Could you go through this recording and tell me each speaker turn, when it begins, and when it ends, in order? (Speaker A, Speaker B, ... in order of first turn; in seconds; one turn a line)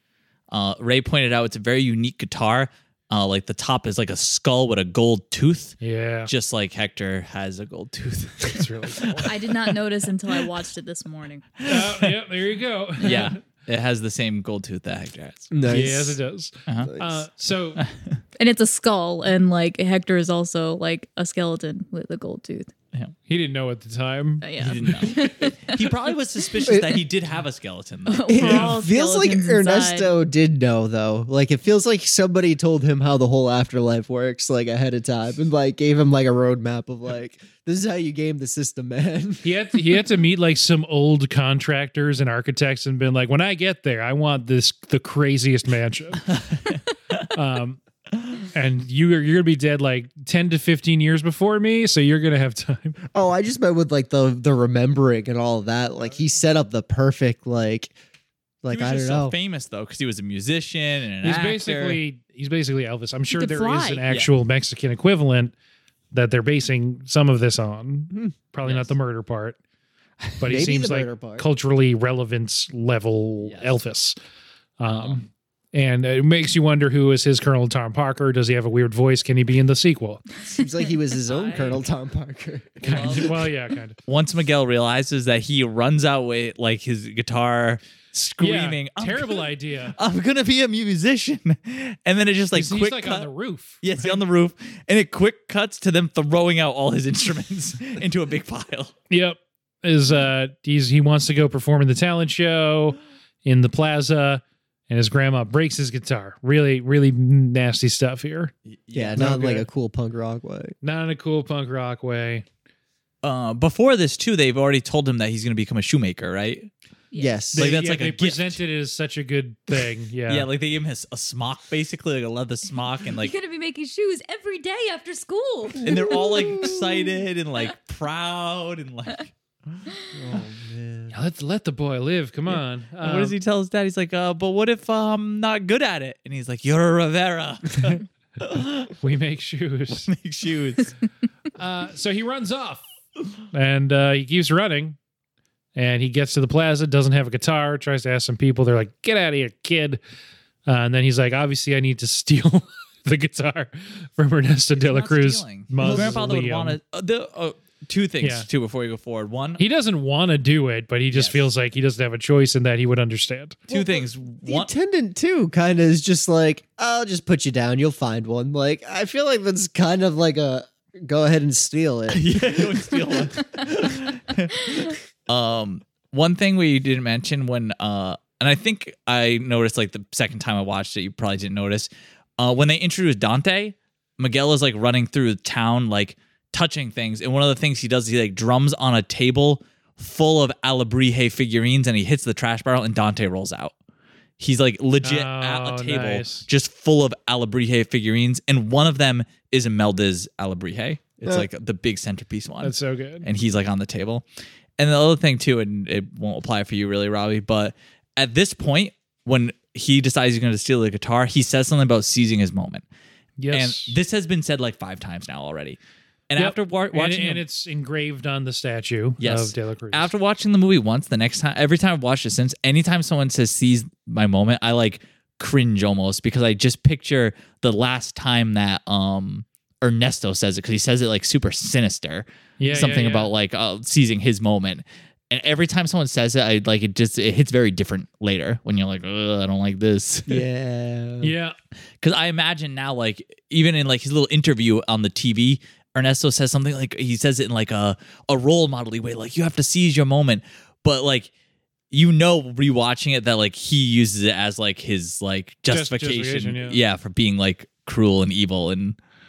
Speaker A: 0.5-9.8
Speaker B: 5.8-6.3
Speaker B: 8.5-9.3
Speaker C: 9.2-11.5
Speaker A: 11.6-12.2
Speaker B: 11.6-13.4
Speaker C: 13.0-13.3
Speaker A: 13.0-15.5
Speaker D: 15.5-16.2
Speaker B: 15.7-17.8
Speaker D: 16.8-17.2
Speaker A: 17.8-18.2
Speaker C: 18.4-22.7
Speaker B: 23.3-25.2
Speaker C: 24.4-25.9
Speaker A: 24.6-28.7
Speaker D: 26.6-27.0
Speaker C: 28.1-30.1
Speaker D: 28.3-39.5
Speaker B: 28.4-28.7
Speaker B: 39.4-46.4
Speaker A: 46.5-47.3
Speaker B: 47.3-47.8
Speaker B: 48.5-53.0
Speaker D: 53.1-57.9
Speaker D: 58.6-59.3
Speaker A: 58.7-62.0
Speaker B: 61.2-65.5
Speaker C: 63.3-64.0
Speaker B: 66.1-69.6
Speaker A: 68.6-68.9
Speaker B: 70.4-74.1
Speaker D: 70.5-71.5
Speaker A: 73.4-73.8
Speaker B: 74.8-80.2
Speaker D: 80.5-83.3
Speaker A: 81.3-81.8
Speaker B: 82.8-84.0
Speaker A: 82.8-83.5
Speaker A: 84.0-93.3
Speaker B: 88.4-90.0
Speaker B: 92.5-94.2
Speaker A: 93.8-99.0
Speaker B: 99.1-108.5
Speaker A: 108.7-109.3
Speaker D: 108.9-110.7
Speaker B: 109.2-109.7
Speaker B: 110.8-112.5
Speaker A: 113.2-116.7
Speaker C: 117.1-117.5
Speaker D: 117.1-117.7
Speaker B: 117.5-120.5
Speaker A: 117.5-118.6
Speaker A: 120.3-123.3
Speaker C: 123.0-126.8
Speaker A: 125.8-129.8
Speaker D: 125.8-126.8
Speaker D: 130.1-131.1
Speaker B: 131.1-133.3
Speaker A: 132.5-138.9
Speaker B: 139.0-140.1
Speaker A: 140.0-140.9
Speaker B: 141.6-142.9
Speaker B: 143.5-145.0
Speaker B: 145.7-150.0
Speaker B: 150.7-156.8
Speaker A: 154.8-159.6
Speaker D: 155.8-156.5
Speaker B: 158.2-158.5
Speaker B: 159.6-163.6
Speaker A: 161.1-161.5
Speaker A: 163.7-164.7
Speaker D: 163.7-173.3
Speaker A: 172.1-193.7
Speaker A: 194.4-204.2
Speaker B: 195.0-196.5
Speaker B: 202.6-203.3
Speaker A: 204.8-212.8
Speaker B: 213.4-214.0
Speaker A: 213.5-215.8
Speaker A: 216.3-217.4
Speaker B: 216.4-220.1
Speaker A: 219.2-240.4
Speaker B: 232.6-233.3
Speaker D: 240.3-241.3
Speaker B: 241.2-241.6
Speaker A: 242.0-251.3
Speaker A: 251.9-259.0
Speaker B: 255.7-256.8